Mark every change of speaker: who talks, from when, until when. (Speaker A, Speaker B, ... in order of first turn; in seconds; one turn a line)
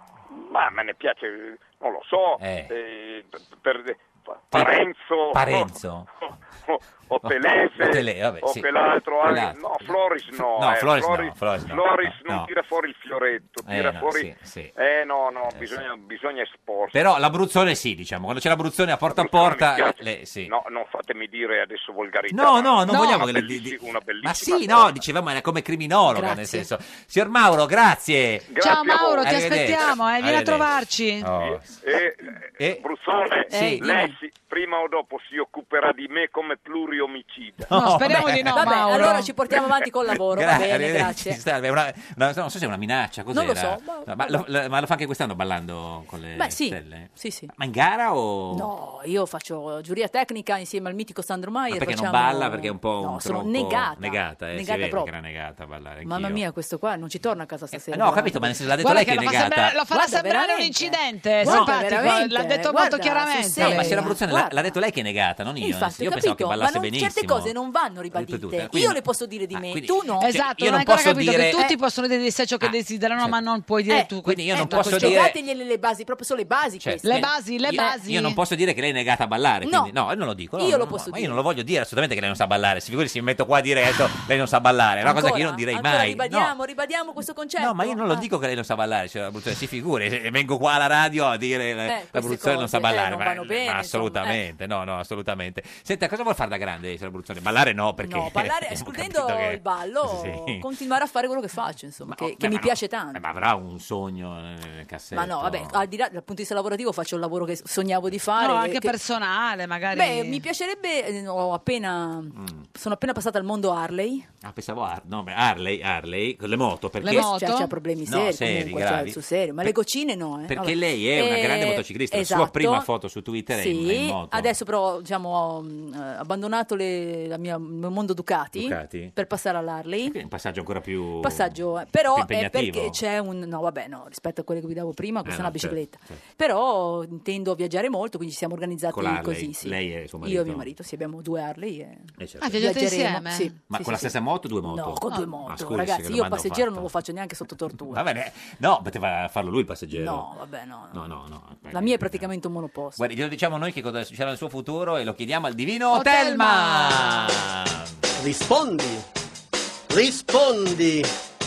Speaker A: 0.3-5.7
Speaker B: 2.4-2.7
Speaker B: 5.3-6.1
Speaker A: 6.7-17.0
Speaker B: 7.2-8.7
Speaker B: 9.2-12.5
Speaker B: 13.6-14.7
Speaker B: 15.5-15.9
Speaker B: 16.9-20.5
Speaker A: 19.1-25.0
Speaker B: 22.3-31.8
Speaker C: 22.9-23.2
Speaker C: 26.1-26.7
Speaker A: 28.5-29.4
Speaker D: 28.6-31.3
Speaker A: 31.4-37.7
Speaker B: 32.5-32.9
Speaker B: 33.5-33.8
Speaker C: 33.5-34.1
Speaker B: 37.6-38.7
Speaker D: 37.7-39.3
Speaker C: 38.5-41.4
Speaker B: 40.3-48.7
Speaker C: 43.3-44.4
Speaker C: 46.4-47.5
Speaker C: 48.5-55.1
Speaker B: 51.7-56.4
Speaker C: 56.0-58.7
Speaker B: 57.8-59.8
Speaker D: 58.8-64.0
Speaker C: 59.9-64.8
Speaker B: 61.4-61.7
Speaker B: 63.6-67.5
Speaker C: 65.6-70.3
Speaker B: 68.1-71.7
Speaker D: 70.2-75.2
Speaker B: 72.6-73.4
Speaker C: 73.9-78.0
Speaker B: 74.2-75.4
Speaker B: 76.8-86.5
Speaker D: 77.0-78.4
Speaker C: 79.6-80.0
Speaker C: 80.6-81.4
Speaker C: 85.0-88.3
Speaker B: 87.6-100.7
Speaker C: 91.9-94.4
Speaker C: 98.0-103.2
Speaker B: 102.1-105.8
Speaker C: 105.1-108.9
Speaker D: 108.4-110.5
Speaker C: 109.9-114.3
Speaker B: 112.4-112.7
Speaker B: 114.4-117.3
Speaker D: 117.0-117.8
Speaker C: 117.0-122.9
Speaker B: 118.1-119.7
Speaker B: 120.5-124.5
Speaker C: 123.5-130.2
Speaker B: 128.6-129.2
Speaker B: 130.0-131.6
Speaker C: 131.2-148.0
Speaker B: 132.1-133.0
Speaker B: 135.2-136.2
Speaker B: 138.9-140.7
Speaker B: 142.2-142.7
Speaker D: 142.4-143.5
Speaker B: 143.7-146.9
Speaker B: 147.9-150.3
Speaker C: 149.9-151.0
Speaker B: 150.9-152.3
Speaker C: 151.7-153.0
Speaker B: 153.0-157.9
Speaker D: 155.9-157.1
Speaker E: 158.2-159.1
Speaker E: 159.9-161.1